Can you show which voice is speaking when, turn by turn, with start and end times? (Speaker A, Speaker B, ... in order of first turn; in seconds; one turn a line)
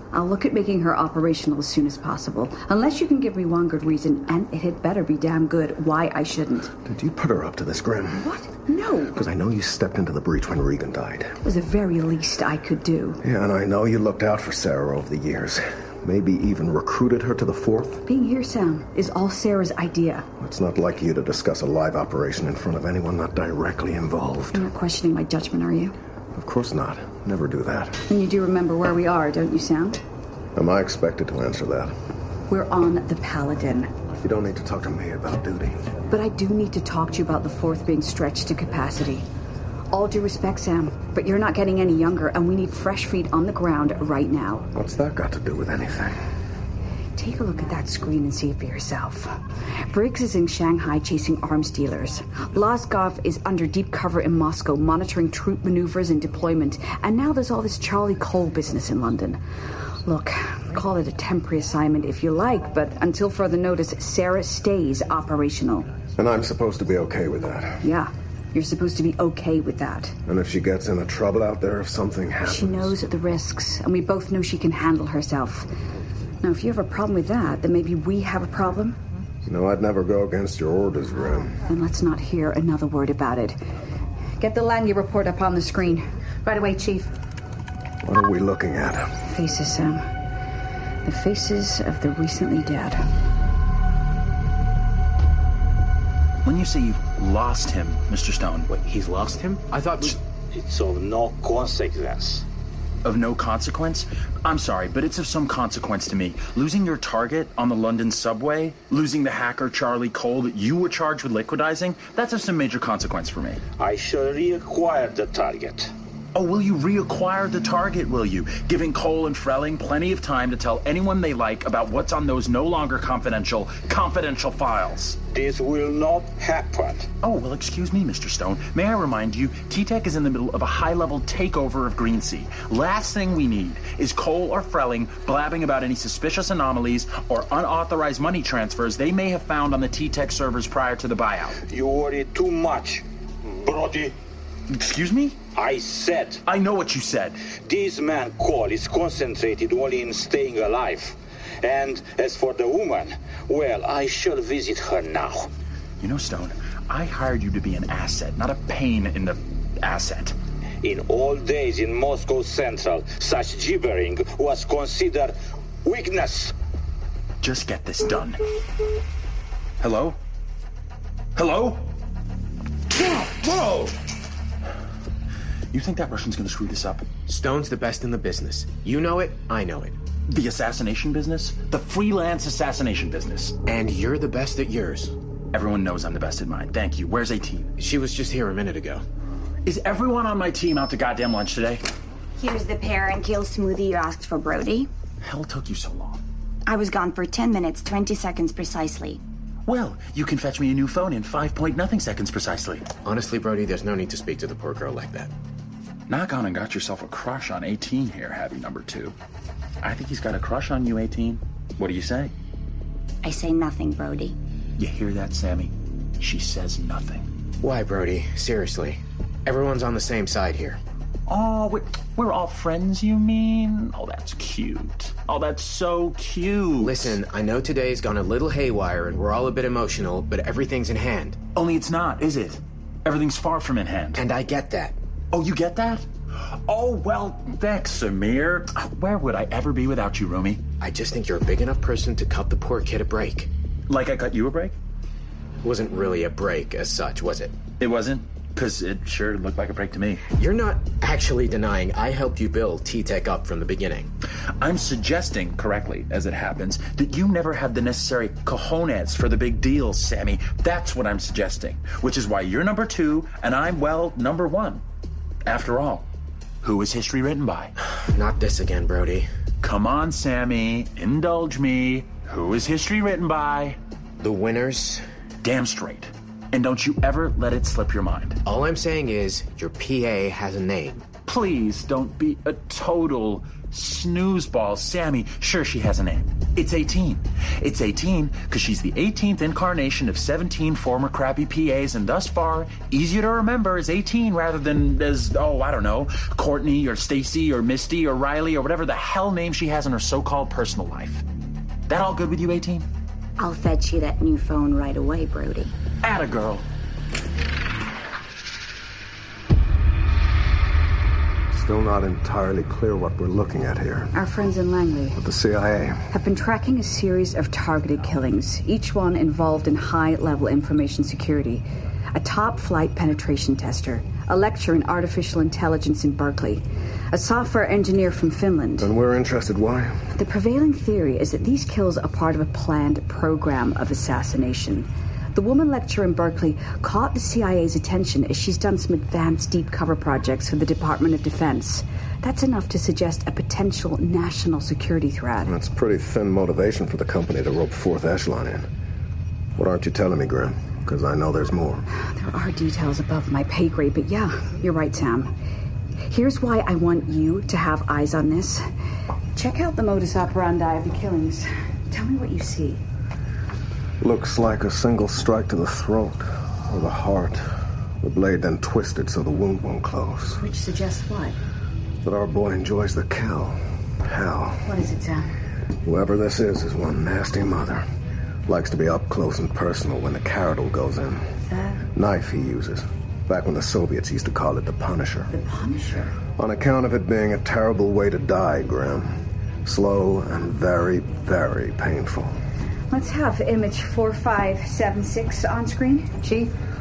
Speaker A: 0.1-6.7
Speaker B: 6.8-8.3
Speaker A: 8.2-9.2
Speaker B: 9.1-11.4
Speaker A: 11.4-13.2
Speaker B: 13.2-18.0
Speaker A: 18.1-20.3
Speaker B: 20.4-24.7
Speaker A: 24.5-25.9
Speaker B: 26.3-28.0
Speaker A: 28.1-30.0
Speaker B: 30.6-31.9
Speaker A: 32.5-33.9
Speaker B: 34.2-35.9
Speaker A: 36.1-39.3
Speaker A: 39.9-44.7
Speaker B: 44.7-46.2
Speaker A: 47.2-49.3
Speaker A: 49.9-59.4
Speaker A: 60.0-65.9
Speaker B: 66.2-67.8
Speaker A: 67.8-70.2
Speaker B: 70.3-73.0
Speaker A: 72.5-75.7
Speaker A: 76.4-79.0
Speaker B: 79.5-81.6
Speaker A: 81.7-83.6
Speaker A: 84.4-87.1
Speaker B: 88.0-89.1
Speaker A: 89.3-90.1
Speaker A: 91.0-93.0
Speaker C: 96.4-98.7
Speaker D: 98.7-100.2
Speaker E: 100.5-102.5
Speaker C: 103.0-113.6
Speaker E: 113.8-115.9
Speaker C: 116.3-125.2
Speaker E: 125.3-127.1
Speaker C: 127.2-141.6
Speaker E: 141.6-144.2
Speaker C: 144.7-145.4
Speaker E: 145.5-146.4
Speaker C: 146.5-147.5
Speaker E: 147.6-155.5
Speaker C: 156.0-160.3
Speaker E: 160.8-166.5
Speaker C: 167.4-168.4
Speaker C: 169.8-170.2
Speaker C: 171.4-171.9
Speaker C: 172.9-173.9
Speaker C: 175.7-177.1
Speaker D: 177.3-180.0
Speaker C: 180.3-183.6
Speaker D: 183.7-185.1
Speaker C: 185.5-187.7
Speaker D: 187.8-189.0
Speaker C: 189.7-191.8
Speaker F: 192.4-194.9
Speaker C: 195.2-196.2
Speaker F: 196.7-199.2
Speaker C: 199.7-202.9
Speaker D: 203.1-205.3
Speaker C: 206.1-209.2
Speaker C: 209.8-212.3
Speaker F: 213.2-214.4
Speaker C: 214.8-217.3
Speaker D: 217.6-220.8
Speaker C: 221.3-227.2
Speaker D: 226.8-231.4
Speaker C: 231.6-234.2
Speaker D: 234.2-235.0
Speaker C: 235.3-236.1
Speaker C: 236.7-240.6
Speaker D: 240.8-243.5
Speaker C: 243.9-244.8
Speaker D: 245.6-247.6
Speaker C: 247.8-250.2
Speaker D: 250.4-254.1
Speaker C: 254.6-264.8
Speaker C: 265.4-266.1
Speaker C: 266.6-267.7
Speaker D: 268.0-269.3
Speaker C: 269.6-273.8
Speaker D: 274.2-275.0
Speaker C: 275.4-278.4
Speaker D: 278.4-281.1
Speaker C: 281.3-301.2
Speaker C: 301.9-302.9
Speaker F: 303.6-305.7
Speaker C: 306.0-306.7
Speaker B: 311.5-314.1
Speaker A: 314.1-315.2
Speaker B: 315.2-316.0
Speaker A: 316.1-328.9
Speaker B: 328.8-330.0
Speaker A: 330.1-345.5
Speaker B: 345.5-348.7
Speaker B: 349.6-351.9
Speaker A: 352.0-355.3
Speaker A: 356.1-358.6
Speaker A: 359.4-362.8
Speaker B: 364.0-367.5
Speaker B: 368.0-370.4
Speaker A: 370.4-371.4
Speaker B: 372.0-374.7
Speaker A: 374.7-375.3
Speaker B: 375.8-377.9
Speaker B: 378.5-381.3
Speaker A: 381.5-381.8
Speaker B: 381.9-385.3
Speaker A: 385.3-386.2
Speaker B: 386.4-392.4
Speaker A: 392.9-396.5